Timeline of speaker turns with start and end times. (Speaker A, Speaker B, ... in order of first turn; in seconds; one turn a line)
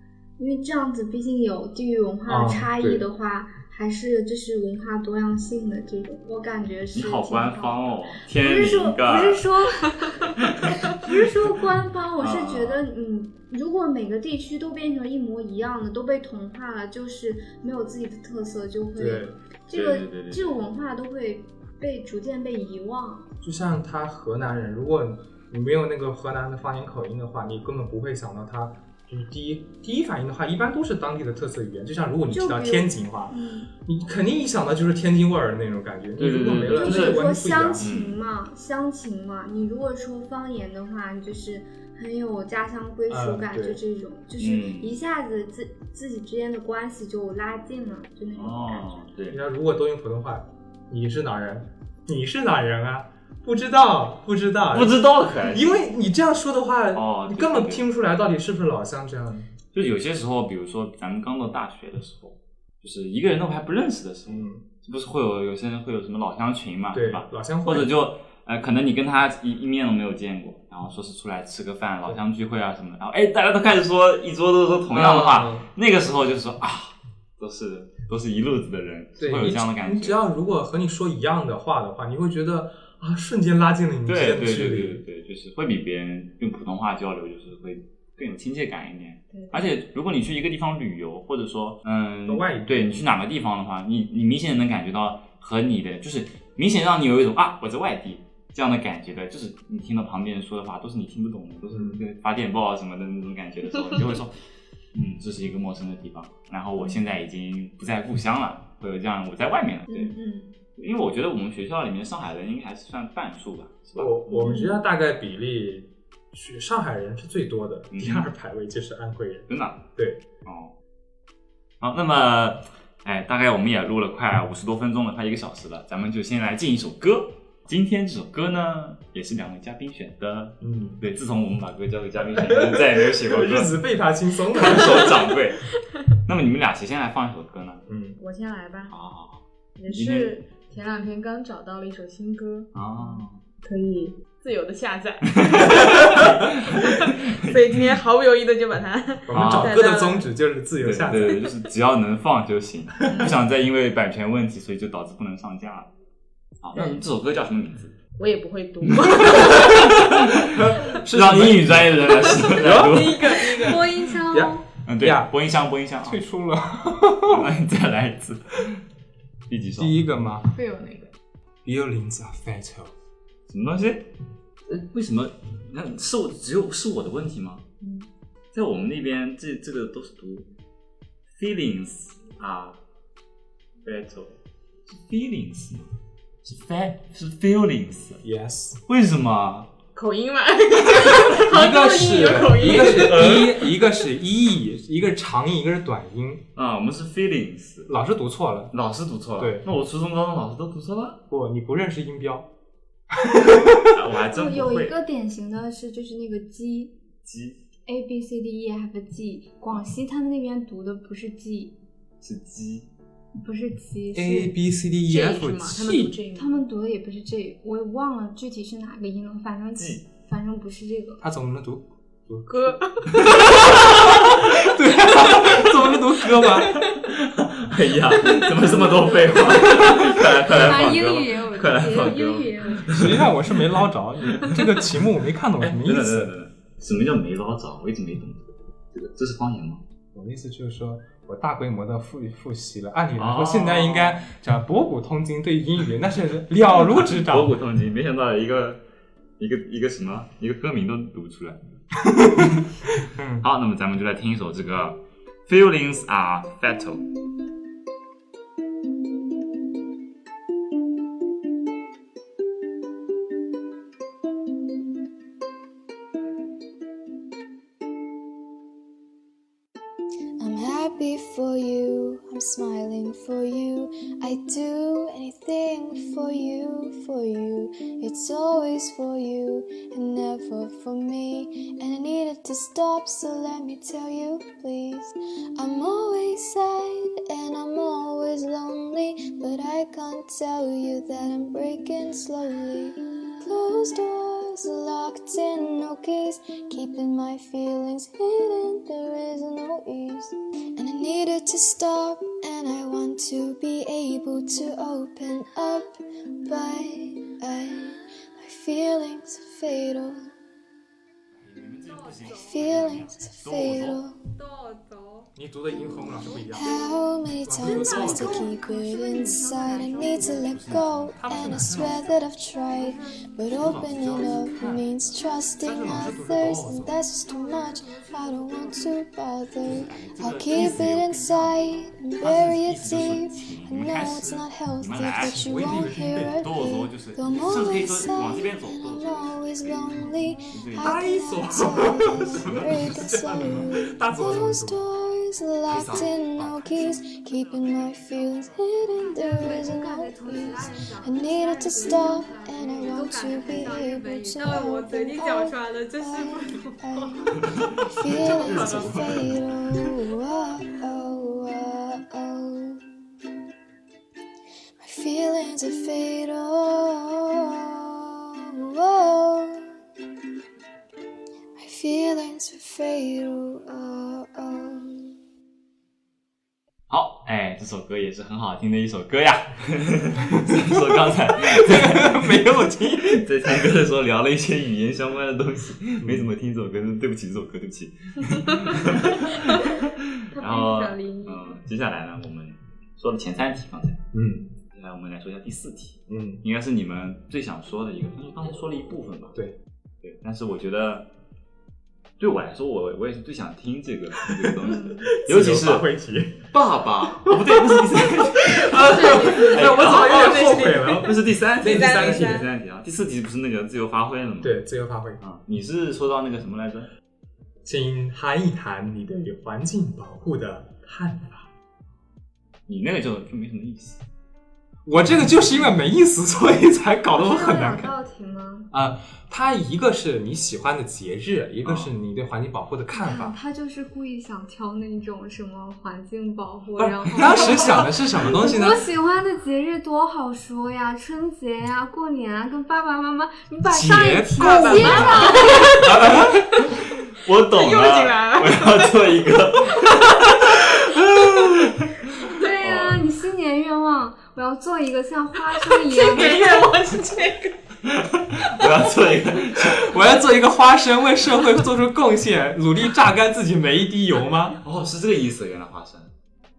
Speaker A: 0.4-23.3
Speaker B: 2.3-3.1
Speaker C: 6.9-9.5
Speaker C: 10.2-11.2
Speaker C: 12.2-12.8
Speaker B: 19.0-19.4
Speaker C: 19.7-20.6
Speaker B: 23.4-37.9
Speaker A: 32.3-33.7
Speaker C: 36.2-37.2
Speaker A: 36.7-49.1
Speaker C: 37.8-38.2
Speaker B: 43.1-43.8
Speaker C: 44.4-44.9
Speaker C: 48.3-49.4
Speaker B: 49.3-59.5
Speaker C: 54.7-55.7
Speaker C: 56.9-57.9
Speaker C: 59.7-80.2
Speaker B: 64.3-64.7
Speaker B: 66.9-67.9
Speaker B: 74.9-75.7
Speaker B: 79.2-85.0
Speaker C: 84.1-104.3
Speaker B: 92.3-93.0
Speaker B: 101.7-102.0
Speaker C: 104.9-110.2
Speaker A: 109.9-110.5
Speaker C: 110.8-114.3
Speaker B: 114.0-120.2
Speaker A: 114.4-114.7
Speaker C: 117.9-118.3
Speaker C: 119.5-119.9
Speaker C: 120.4-120.7
Speaker C: 121.8-133.8
Speaker B: 130.6-131.0
Speaker B: 132.3-135.2
Speaker C: 134.5-137.8
Speaker B: 137.9-138.2
Speaker D: 138.2-138.9
Speaker C: 138.9-140.3
Speaker D: 139.8-150.3
Speaker C: 142.7-143.4
Speaker C: 145.4-147.8
Speaker B: 149.3-151.5
Speaker C: 149.3-149.8
Speaker C: 150.8-155.9
Speaker D: 153.1-153.3
Speaker C: 156.6-158.0
Speaker D: 158.2-160.3
Speaker C: 158.9-163.7
Speaker B: 160.5-163.4
Speaker D: 162.3-163.8
Speaker A: 163.5-164.7
Speaker B: 164.2-165.3
Speaker C: 164.8-166.2
Speaker B: 166.0-167.5
Speaker C: 167.3-168.8
Speaker C: 169.5-170.0
Speaker B: 169.8-170.5
Speaker D: 170.5-171.1
Speaker B: 171.7-172.9
Speaker C: 173.5-174.1
Speaker C: 174.7-177.6
Speaker D: 177.8-178.1
Speaker C: 178.5-180.5
Speaker C: 181.3-182.8
Speaker C: 183.8-185.9
Speaker C: 186.4-188.2
Speaker B: 188.2-188.8
Speaker C: 188.9-189.7
Speaker D: 189.9-193.4
Speaker B: 191.4-196.4
Speaker C: 192.5-193.8
Speaker C: 196.6-197.9
Speaker B: 197.9-198.7
Speaker C: 198.7-201.2
Speaker B: 199.4-199.7
Speaker B: 201.3-202.5
Speaker B: 203.1-204.0
Speaker C: 203.9-205.0
Speaker A: 204.3-207.0
Speaker C: 207.2-207.6
Speaker A: 207.9-211.7
Speaker C: 212.2-212.9
Speaker A: 213.3-214.5
Speaker B: 214.1-216.2
Speaker D: 215.1-216.6
Speaker A: 216.3-221.2
Speaker C: 219.8-220.0
Speaker B: 221.2-226.8
Speaker D: 222.5-224.0
Speaker C: 223.2-233.7
Speaker D: 228.3-230.0
Speaker A: 229.7-233.0
Speaker B: 230.5-230.9
Speaker B: 232.9-236.3
Speaker C: 234.3-234.7
Speaker C: 235.6-239.8
Speaker B: 240.1-247.5
Speaker C: 243.2-244.2
Speaker C: 247.1-248.8
Speaker C: 249.4-251.6
Speaker B: 252.1-253.4
Speaker C: 253.4-257.1
Speaker E: 270.4-310.3
Speaker C: 311.4-314.0
Speaker A: 311.9-312.6
Speaker E: 312.2-314.2
Speaker A: 314.4-315.3
Speaker B: 315.4-316.9
Speaker E: 315.9-362.8
Speaker A: 316.2-317.0
Speaker B: 317.4-318.5
Speaker A: 317.6-320.6
Speaker C: 320.3-321.9
Speaker B: 321.2-322.1
Speaker A: 322.7-323.0
Speaker B: 323.6-324.9
Speaker B: 325.6-326.9
Speaker A: 327.3-329.0
Speaker C: 329.7-339.9
Speaker B: 335.1-336.5
Speaker C: 340.5-341.1
Speaker B: 340.8-344.8
Speaker C: 342.4-342.8
Speaker B: 345.7-346.8
Speaker C: 345.7-346.0
Speaker A: 349.0-357.3
Speaker C: 357.4-359.4
Speaker A: 358.5-358.9
Speaker E: 364.8-369.7
Speaker E: 371.6-375.1
Speaker C: 376.9-394.0
Speaker B: 380.4-383.6
Speaker B: 386.0-386.3
Speaker A: 390.3-391.6
Speaker B: 394.1-394.5
Speaker C: 394.7-399.4
Speaker B: 396.1-396.4
Speaker C: 400.0-401.1
Speaker C: 402.2-405.9
Speaker B: 404.2-406.5
Speaker C: 406.5-414.6
Speaker B: 407.2-412.4
Speaker D: 408.7-412.5
Speaker B: 414.4-415.2
Speaker C: 415.2-416.9
Speaker B: 417.6-421.4
Speaker C: 422.7-424.0
Speaker B: 424.9-427.9
Speaker A: 427.1-428.7
Speaker B: 428.7-433.4
Speaker C: 431.6-431.9
Speaker A: 432.9-446.0
Speaker B: 436.8-438.9
Speaker B: 443.7-446.4
Speaker D: 444.4-445.8
Speaker C: 445.8-453.0
Speaker D: 447.5-449.1
Speaker D: 449.8-450.6
Speaker A: 452.2-456.7
Speaker D: 455.6-457.6
Speaker C: 457.8-460.0
Speaker B: 459.6-464.6
Speaker C: 464.6-466.1